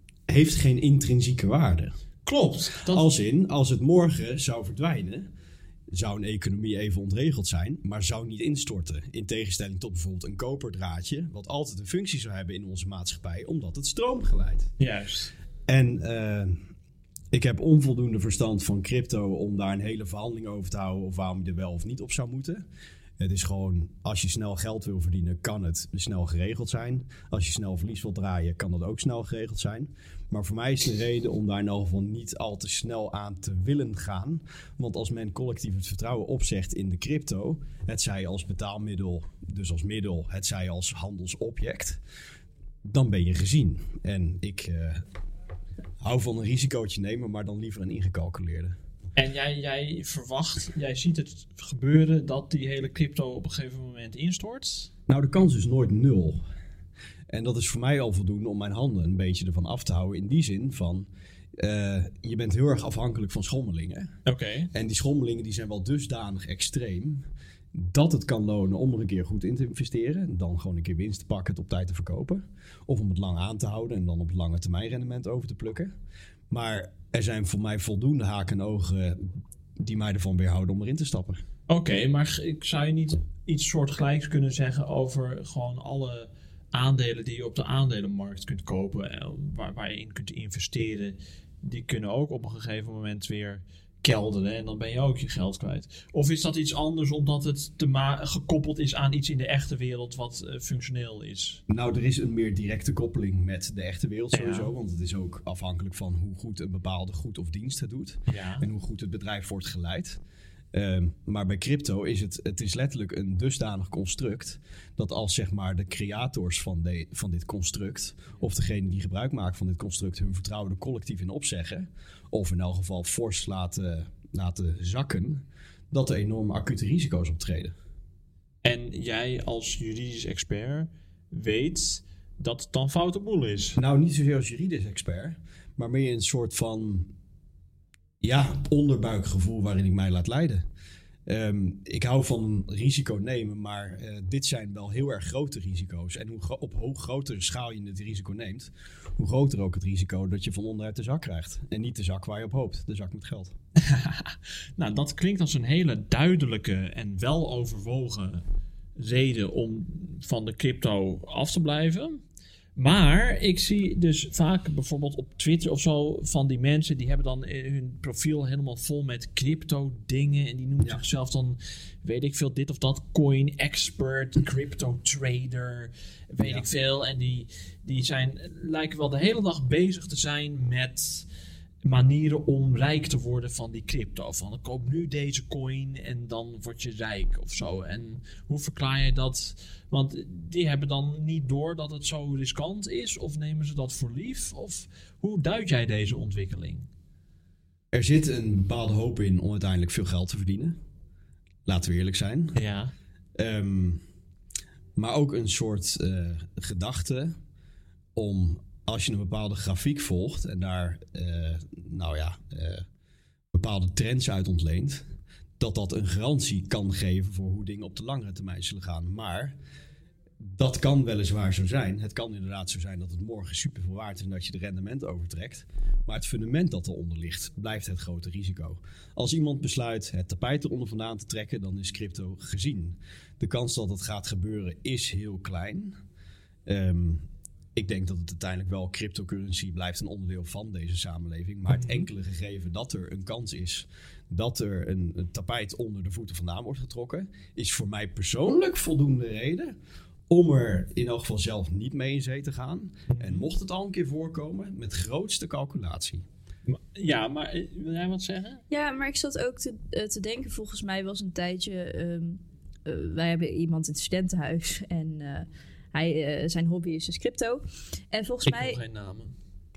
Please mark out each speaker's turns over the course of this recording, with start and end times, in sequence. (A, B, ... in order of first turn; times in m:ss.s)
0:00.3-0:02.0 A
0:02.2-0:03.1 B
0:02.9-0:05.3 A
0:05.9-0:14.7 A
0:14.8-0:15.3 B
0:15.7-0:16.6 A
0:17.3-0:22.6 A
0:23.2-0:42.0 A
0:42.8-0:45.0 A
0:46.0-0:48.8 A
0:49.2-0:54.9 B
0:55.1-0:56.4 A
0:57.3-1:04.1 A
1:04.2-1:04.7 B
1:04.7-1:15.9 A
1:16.5-1:21.4 A
1:21.7-1:41.6 B
1:41.7-1:50.2 A
1:44.3-1:44.7 B
1:48.3-1:48.6 B
1:50.7-2:07.8 A
2:08.6-2:13.8 B
2:13.8-2:17.1 A
2:18.2-2:20.6 A
2:21.2-2:33.5 A
2:33.8-2:38.4 B
2:39.0-2:42.2 B
2:42.8-3:01.2 B
2:56.4-2:56.6 A
3:01.8-3:16.9 B
3:17.9-3:20.8 A
3:21.6-3:22.6 A
3:22.6-3:22.9 B
3:23.4-3:24.0 A
3:25.0-3:27.4 A
3:28.1-3:32.8 A
3:33.5-3:35.1 A
3:35.6-3:39.6 A
3:40.4-3:56.0 A
3:56.6-4:09.8 A
4:01.7-4:02.1 B
4:10.3-4:16.2 A
4:13.1-4:13.5 B
4:16.7-4:18.6 B
4:18.7-4:28.8 C
4:28.4-4:29.4 B